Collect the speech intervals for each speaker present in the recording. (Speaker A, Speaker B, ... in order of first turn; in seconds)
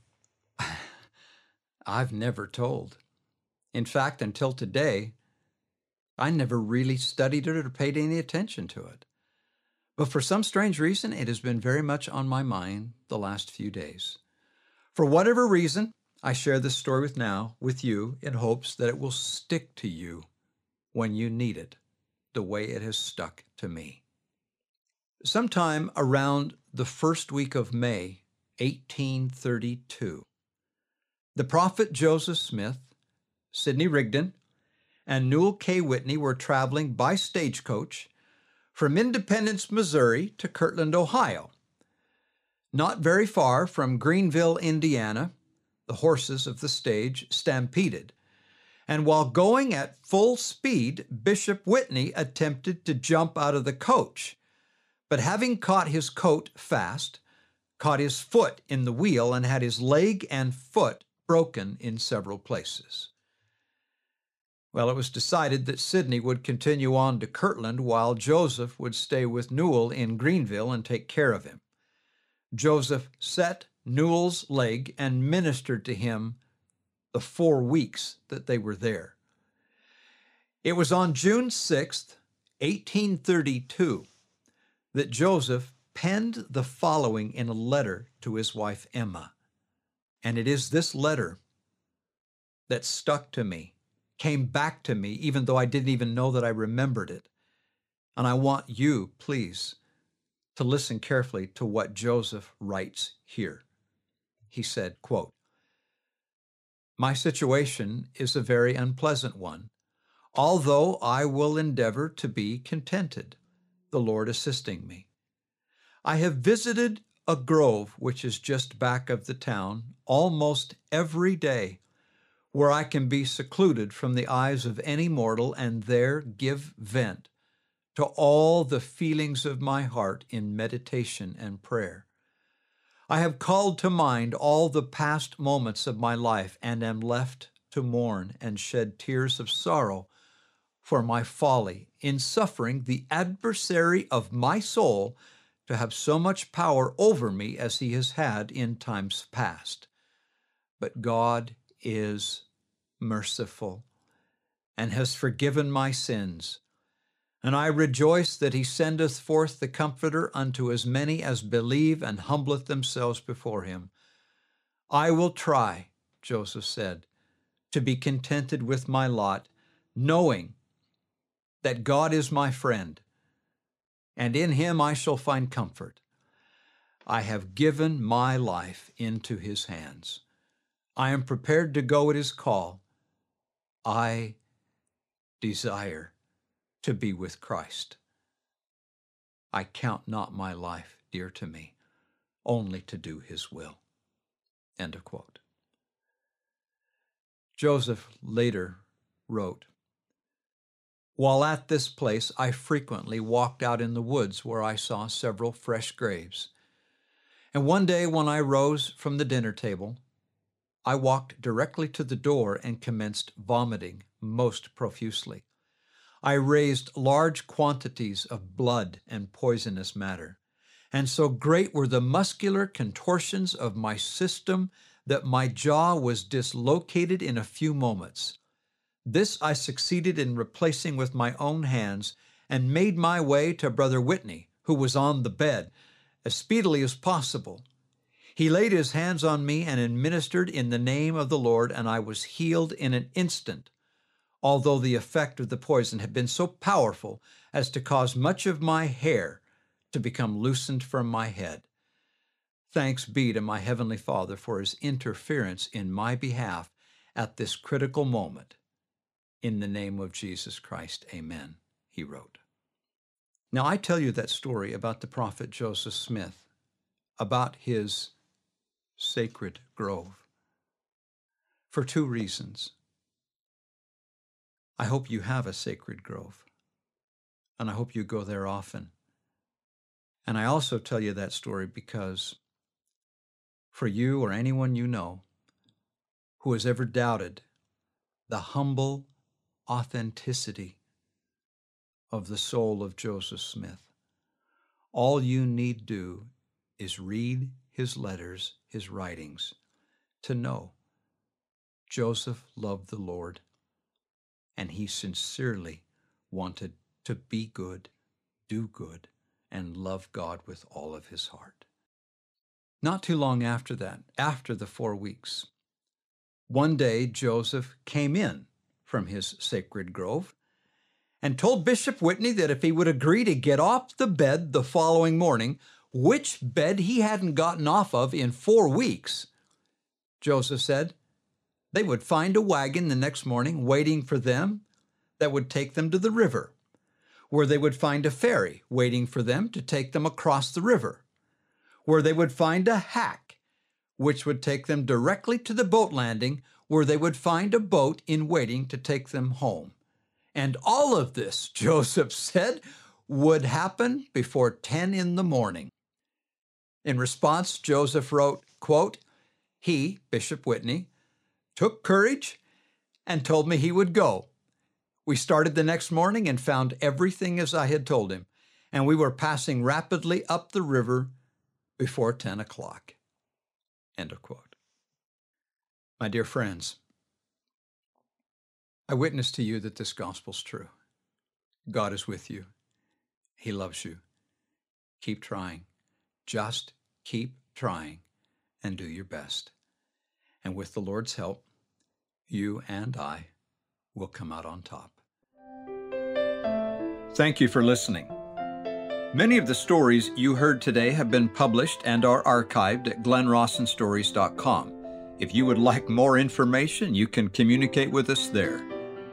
Speaker A: 0.6-0.9, 1.9-3.0, 3.7-5.1, 6.2-9.1, 10.0-14.2, 14.9-20.3, 20.9-21.8, 22.3-24.0, 25.2-30.3, 31.4-32.9, 33.5-34.4, 35.1-38.1, 38.7-41.5, 42.7-45.3, 45.9-48.1, 48.9-54.4, 55.1-57.2, 57.8-63.1, 64.7-71.6, 72.5-76.4, 77.1-79.2, 80.6-84.1, 84.9-89.3, 90.2-91.4, 92.7-97.3, 98.2-99.8, 100.5-103.6, 104.5-105.3, 107.0-109.7, 110.3-113.4, 113.9-115.1, 116.0-121.8, 122.5-127.3, 128.0-132.1, 133.1-140.1, 140.8-149.9, 150.8-152.4, 153.0-153.8, 154.8-156.6, 157.4-163.9, 164.9-167.1, 167.7-170.6, 171.6-173.0, 174.2-176.0, 177.1-180.2, 181.0-182.8, 183.8-184.4, 185.4-186.1, 186.8-188.0, 189.5-191.8, 192.4-193.8, 194.8-195.4, 197.6-199.7, 201.2-206.5, 207.5-210.0, 210.8-215.4, 216.2-220.4, 220.9-228.4, 229.1-235.7, 236.2-237.6, 238.4-243.7, 244.4-251.7, 252.7-258.6, 259.4-262.4, 263.5-266.5, 267.2-268.1, 269.0-270.2, 271.7-272.7, 274.8-276.4, 277.6-278.9, 280.2-282.4, 283.7-285.2, 286.4-287.4, 288.3-289.1, 289.7-290.8, 292.1-293.9, 294.9-299.6, 300.2-300.7, 301.9-303.4, 304.6-307.9, 308.5-311.6, 312.8-315.5, 316.5-320.4, 321.2-329.3, 330.2-330.9, 331.7-334.6, 335.2-336.5, 337.3-341.0, 341.9-343.4, 344.0-349.8, 350.3-355.7, 356.8-359.0, 359.6-360.9, 361.6-362.4, 363.1-364.3, 365.1-371.1, 371.8-373.0, 374.0-374.6, 376.0-376.8, 378.9-380.7, 381.7-382.5, 383.4-384.0, 385.0-385.7, 386.3-388.0, 388.6-389.5, 390.4-391.4, 392.3-393.3, 393.9-395.0, 397.1-398.1, 399.1-408.7